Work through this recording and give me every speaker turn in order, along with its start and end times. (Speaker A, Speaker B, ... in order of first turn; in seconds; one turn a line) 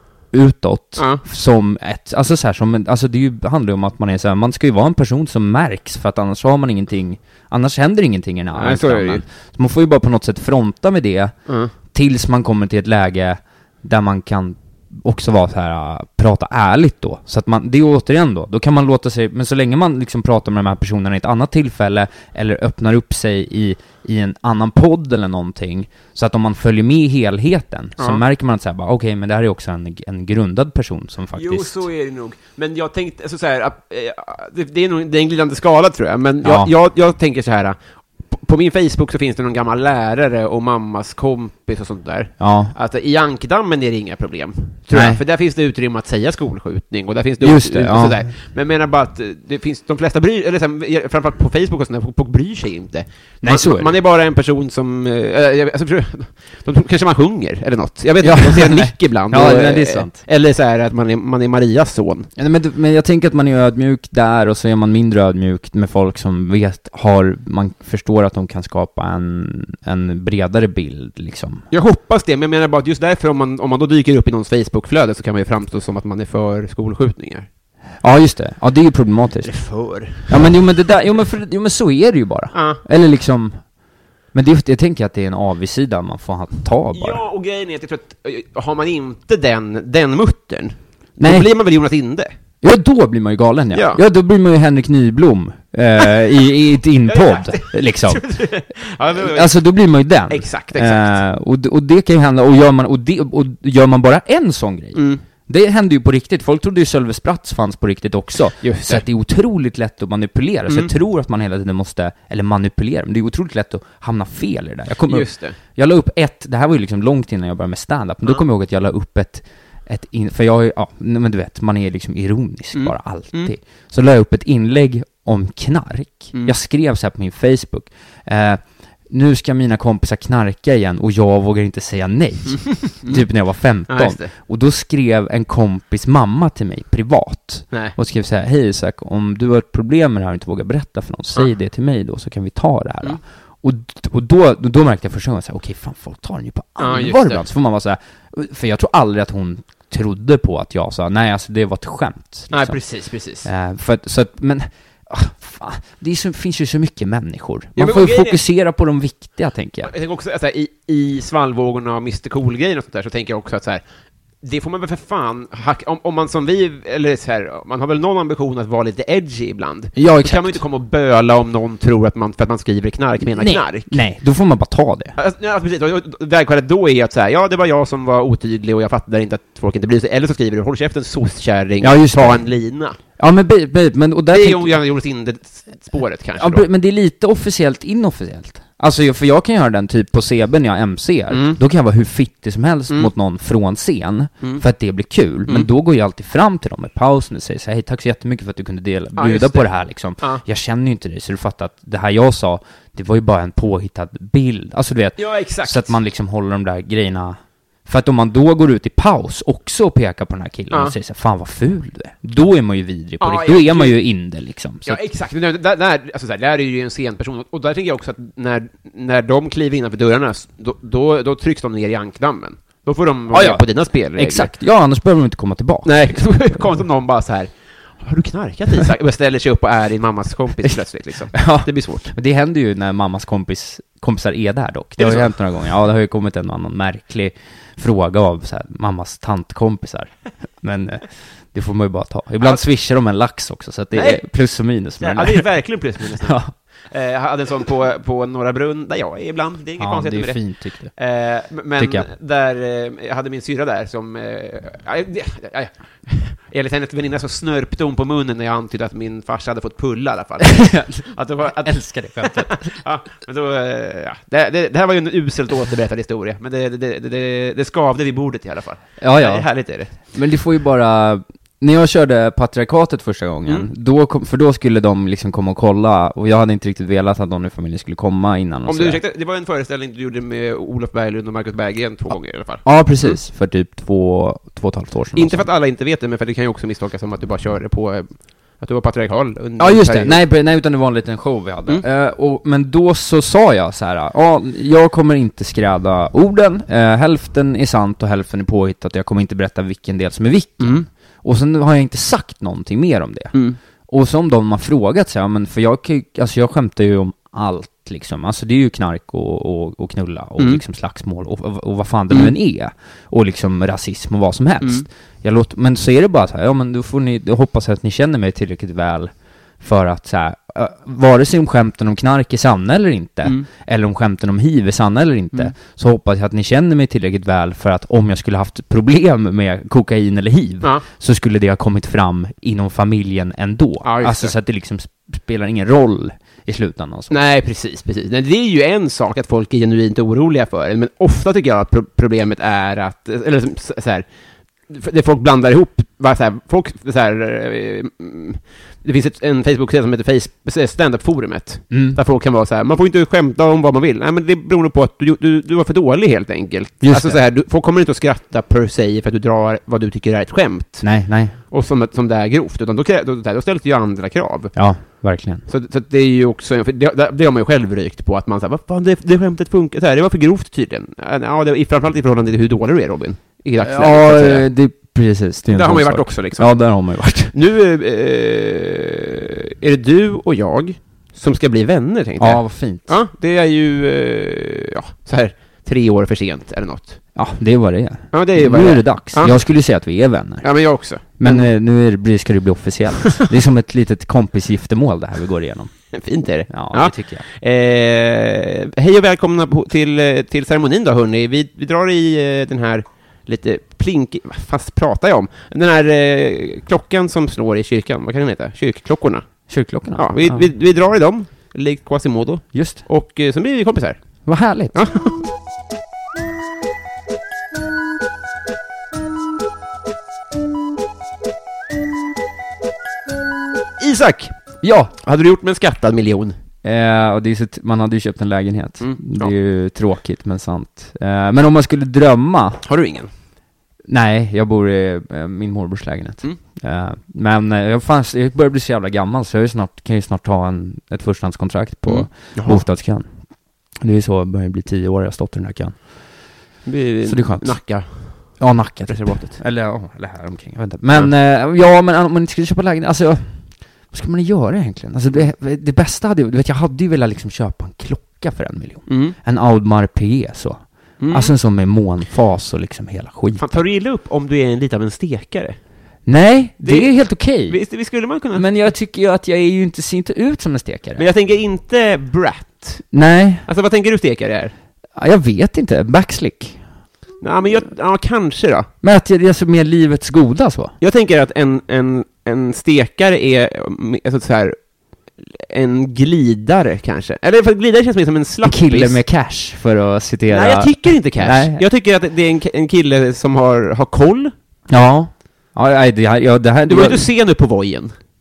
Speaker A: 0.3-11.3
Speaker B: 1.0-1.2
Speaker B: 8.6-9.2
Speaker B: 11.5-11.7
Speaker A: 11.9-31.8
Speaker B: 31.4-37.8
Speaker A: 36.4-36.7
Speaker B: 38.3-62.3
Speaker A: 42.4-42.7
Speaker A: 44.9-45.2
Speaker A: 47.4-48.2
Speaker A: 53.4-54.0
Speaker A: 58.2-60.2
Speaker A: 62.4-71.7
Speaker B: 71.7-77.5
Speaker A: 78.0-79.5
Speaker B: 79.4-80.5
Speaker A: 80.3-83.6
Speaker B: 82.5-82.8
Speaker A: 84.3-87.2
Speaker B: 86.9-92.3
Speaker A: 91.2-91.5
Speaker A: 92.6-98.2
Speaker B: 93.7-94.0
Speaker B: 97.1-99.5
Speaker A: 99.2-152.8
Speaker B: 100.3-101.2
Speaker B: 105.0-105.2
Speaker B: 108.6-109.0
Speaker B: 115.0-115.6
Speaker B: 122.8-123.5
Speaker B: 132.7-133.2
Speaker B: 133.9-134.3
Speaker B: 146.8-147.4
Speaker B: 152.5-153.5
Speaker A: 153.4-159.9
Speaker B: 157.8-158.4
Speaker B: 159.8-163.8
Speaker B: 164.4-174.0
Speaker A: 170.0-170.6
Speaker A: 173.4-175.2
Speaker B: 175.2-183.0
Speaker A: 181.8-182.4
Speaker A: 183.2-184.8
Speaker B: 184.3-186.7
Speaker A: 186.4-215.0
Speaker B: 191.3-191.6
Speaker B: 199.2-199.7
Speaker B: 205.2-205.9
Speaker B: 213.2-214.0
Speaker B: 214.9-224.5
Speaker A: 223.3-223.6
Speaker A: 224.2-226.7
Speaker B: 225.8-227.5
Speaker B: 228.0-232.1
Speaker A: 231.3-245.5
Speaker B: 235.0-235.3
Speaker B: 243.9-244.2
Speaker B: 245.0-250.4
Speaker A: 246.2-246.5
Speaker A: 249.8-250.9
Speaker B: 251.0-270.0
Speaker A: 251.8-252.1
Speaker A: 260.5-262.6
Speaker A: 269.0-269.5
Speaker A: 270.1-279.0
Speaker B: 278.7-283.2
Speaker A: 282.6-285.5
Speaker B: 285.2-290.2
Speaker A: 289.6-303.4
Speaker B: 300.6-300.9
Speaker B: 303.3-303.6
Speaker A: 303.9-337.2
Speaker B: 310.4-310.6
Speaker B: 333.8-334.3
Speaker B: 337.1-344.1
Speaker B: 344.7-360.9
Speaker A: 351.7-352.0
Speaker A: 356.8-357.2
Speaker A: 360.8-361.3
Speaker B: 361.5-364.6
Speaker A: 364.6-365.4
Speaker B: 365.5-374.4
Speaker A: 373.6-377.3
Speaker B: 375.5-376.6
Speaker B: 377.3-387.0
Speaker A: 382.2-382.9
Speaker A: 387.2-390.4
Speaker B: 388.1-389.4
Speaker B: 390.4-391.5
Speaker A: 391.2-395.7
Speaker B: 395.9-409.3
Speaker A: 396.5-397.2
Speaker A: 409.5-410.5
Speaker B: 409.9-414.0
Speaker A: 412.5-412.9
Speaker A: 414.3-414.7
Speaker B: 414.7-415.2
Speaker B: 423.8-424.4
Speaker A: 424.6-424.9
Speaker B: 425.0-426.4
Speaker A: 426.6-432.6
Speaker B: 428.8-429.3
Speaker B: 432.6-433.1
Speaker A: 433.9-443.1
Speaker B: 441.9-442.6
Speaker A: 443.8-445.8
Speaker B: 446.7-449.4
Speaker A: 447.1-447.6
Speaker A: 448.4-453.4
Speaker A: 453.9-463.6
Speaker B: 458.9-459.2
Speaker B: 461.0-461.3
Speaker B: 463.4-465.6
Speaker A: 466.1-467.6
Speaker B: 466.6-468.5
Speaker A: 468.4-471.0
Speaker B: 471.0-472.9
Speaker A: 472.9-473.5
Speaker B: 473.5-474.5
Speaker A: 475.0-476.6
Speaker B: 477.2-478.7
Speaker A: 478.8-480.7
Speaker B: 480.8-484.6
Speaker B: 485.2-489.0
Speaker A: 488.4-491.6
Speaker B: 490.3-494.3
Speaker A: 494.7-497.1
Speaker B: 496.7-497.9